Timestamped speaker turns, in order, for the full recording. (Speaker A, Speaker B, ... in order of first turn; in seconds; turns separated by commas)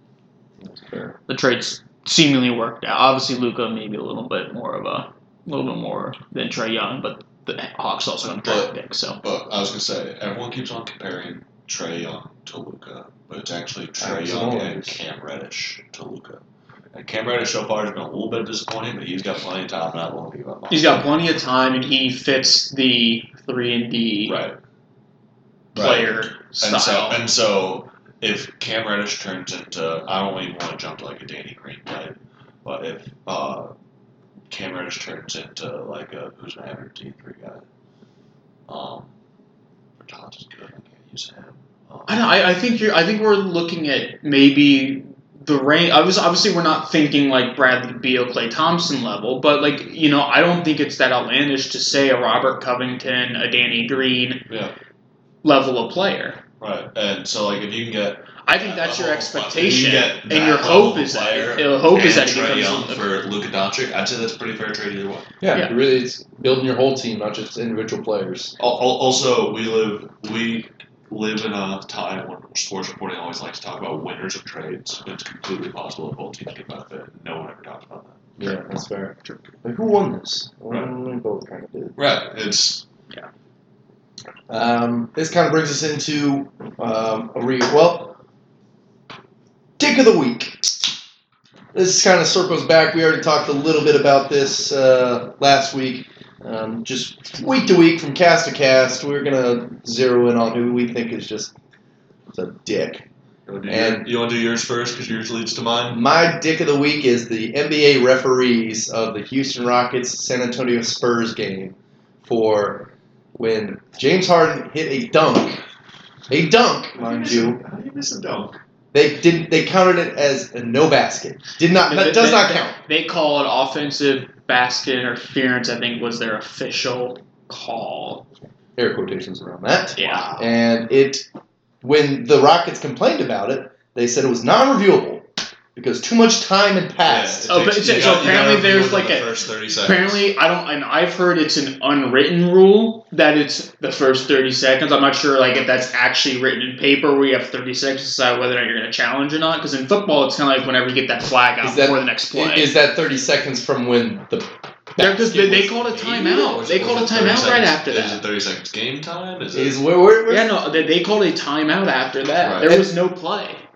Speaker A: 0.8-1.1, Speaker B: 1.3-9.2, Speaker C: 8.4-16.4, Speaker A: 14.0-15.0, Speaker C: 16.9-21.1, Speaker B: 20.7-24.4, Speaker C: 24.2-24.6, Speaker C: 25.7-33.7, Speaker B: 25.8-27.2, Speaker C: 34.5-37.6, Speaker C: 38.7-39.1, Speaker C: 40.0-42.4, Speaker B: 42.1-54.4, Speaker B: 55.4-56.4, Speaker C: 56.6-65.3, Speaker B: 58.4-63.1, Speaker A: 65.4-68.5, Speaker C: 68.6-78.5, Speaker A: 78.4-82.0, Speaker C: 82.0-82.8, Speaker A: 84.5-88.2, Speaker A: 89.8-90.6, Speaker A: 91.7-101.5, Speaker A: 102.3-103.0, Speaker C: 103.5-106.0, Speaker A: 103.7-104.1, Speaker A: 105.9-115.6, Speaker A: 116.3-117.6, Speaker C: 116.9-118.6, Speaker A: 118.9-122.8, Speaker B: 121.8-128.2, Speaker A: 128.8-131.2, Speaker B: 130.0-130.2, Speaker C: 130.0-130.6, Speaker A: 131.8-137.5, Speaker C: 137.0-140.3, Speaker B: 137.5-152.7, Speaker A: 151.6-156.5, Speaker B: 155.0-158.2, Speaker C: 155.9-159.8, Speaker A: 159.5-160.5, Speaker B: 160.3-163.6, Speaker C: 162.4-162.7